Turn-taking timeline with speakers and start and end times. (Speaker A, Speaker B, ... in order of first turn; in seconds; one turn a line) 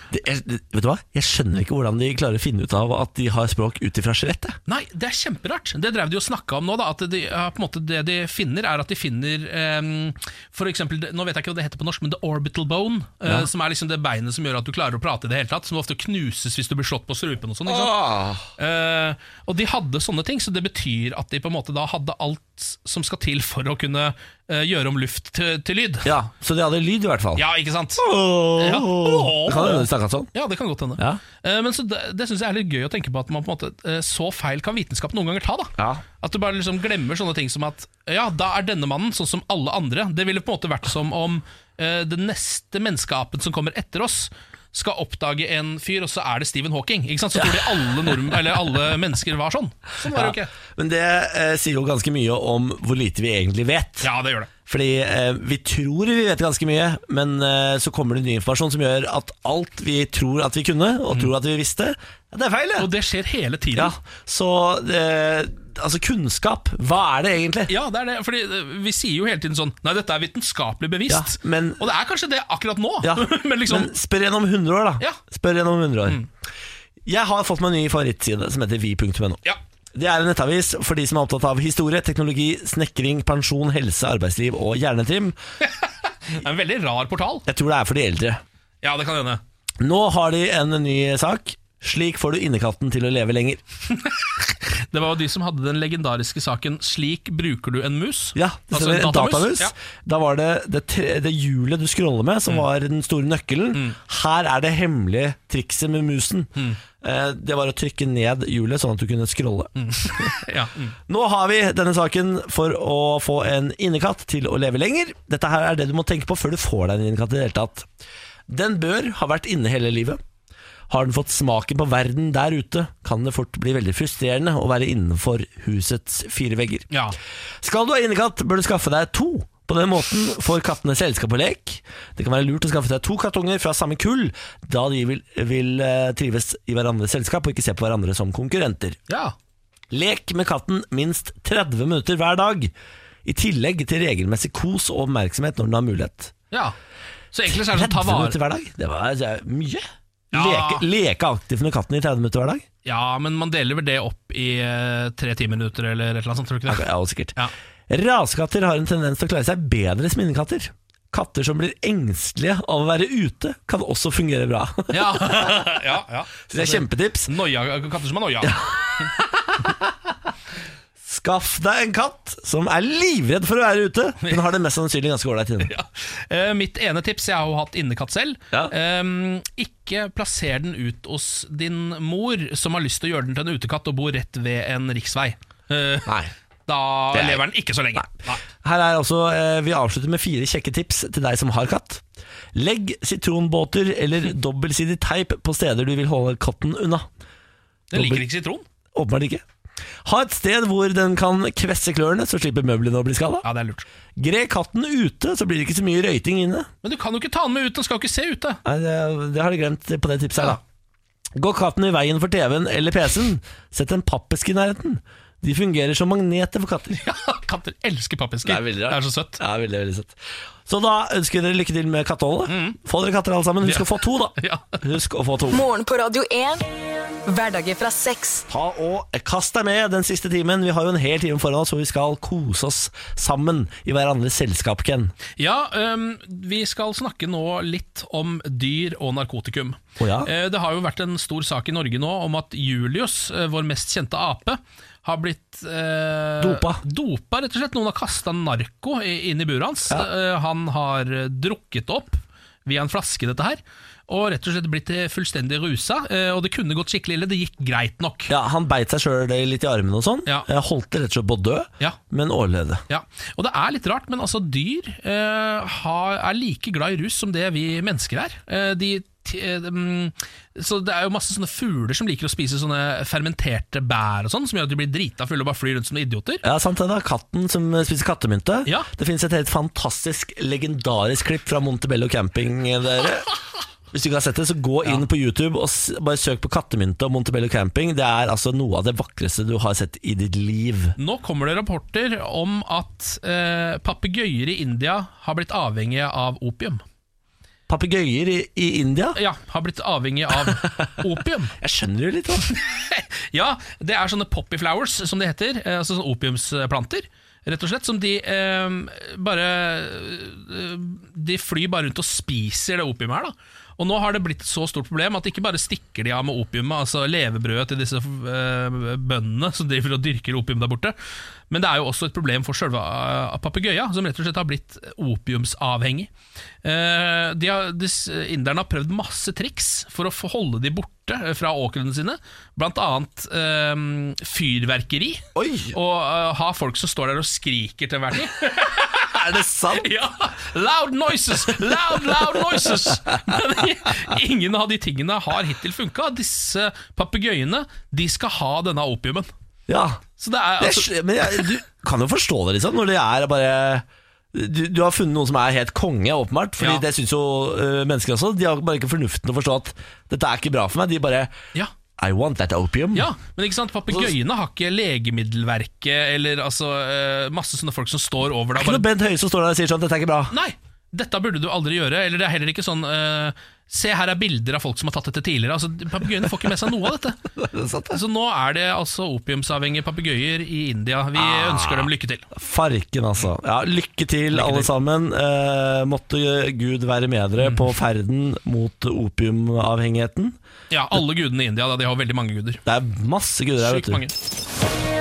Speaker A: 0.1-4.6
Speaker B: 4.7-26.1
Speaker A: 17.6-18.5
Speaker A: 26.0-27.4
Speaker B: 27.4-28.0
Speaker A: 28.0-30.3
Speaker B: 28.6-50.5
Speaker A: 35.8-36.0
Speaker A: 47.4-48.3
Speaker A: 50.0-54.1
Speaker B: 54.0-54.5
Speaker A: 54.6-62.9
Speaker B: 62.8-63.9
Speaker A: 63.7-67.7
Speaker B: 67.7-73.9
Speaker A: 71.1-71.8
Speaker A: 73.0-76.2
Speaker A: 77.0-79.4
Speaker A: 79.9-85.3
Speaker B: 85.6-87.4
Speaker A: 87.5-88.4
Speaker B: 88.8-89.4
Speaker A: 89.8-93.6
Speaker B: 94.0-99.7
Speaker A: 98.3-110.3
Speaker B: 109.8-110.9
Speaker A: 111.1-117.9
Speaker A: 118.5-120.2
Speaker A: 120.9-126.9
Speaker B: 126.9-127.2
Speaker A: 127.6-139.0
Speaker B: 139.1-139.3
Speaker A: 139.9-142.7
Speaker A: 143.2-146.3
Speaker B: 147.3-148.4
Speaker A: 147.5-152.6
Speaker B: 150.3-150.8
Speaker B: 152.8-157.5
Speaker A: 156.7-157.3
Speaker A: 157.9-165.9
Speaker B: 164.9-168.6
Speaker A: 166.5-167.3
Speaker A: 168.4-169.8
Speaker A: 171.0-175.7
Speaker B: 175.6-186.1
Speaker A: 186.1-186.3
Speaker B: 186.7-188.4
Speaker A: 187.1-187.4
Speaker A: 187.9-192.0
Speaker A: 192.5-197.1
Speaker B: 197.9-198.6
Speaker A: 197.9-198.2
Speaker A: 198.9-199.4
Speaker A: 200.0-203.4
Speaker B: 203.4-203.8
Speaker A: 204.2-206.7
Speaker B: 206.8-208.6
Speaker A: 208.6-210.6
Speaker A: 211.3-217.0
Speaker B: 216.9-219.4
Speaker A: 218.4-225.6
Speaker B: 222.5-222.8
Speaker B: 223.6-224.8
Speaker C: 225.5-226.7
Speaker C: 227.2-228.5
Speaker A: 228.5-235.1
Speaker B: 235.4-258.3
Speaker A: 240.0-240.3
Speaker A: 246.4-246.8
Speaker A: 258.3-262.8
Speaker B: 262.9-276.4
Speaker A: 276.4-283.3
Speaker A: 283.9-290.9
Speaker B: 291.0-296.8
Speaker A: 297.7-299.2
Speaker B: 299.1-301.5
Speaker A: 300.4-300.9
Speaker A: 301.6-302.5
Speaker B: 302.5-320.9
Speaker B: 321.5-326.1
Speaker B: 326.6-349.3
Speaker A: 335.3-335.8
Speaker A: 339.1-339.9
Speaker A: 341.9-342.7
Speaker A: 349.7-350.0
Speaker B: 350.2-351.5
Speaker A: 350.6-361.3
Speaker A: 362.0-363.1
Speaker B: 362.9-368.8
Speaker A: 368.6-370.3
Speaker B: 370.3-377.2
Speaker A: 377.4-378.0
Speaker B: 377.9-382.3
Speaker A: 381.2-390.4
Speaker B: 384.3-384.7
Speaker B: 387.4-387.7
Speaker B: 390.7-392.6
Speaker A: 392.6-394.0
Speaker B: 393.6-394.1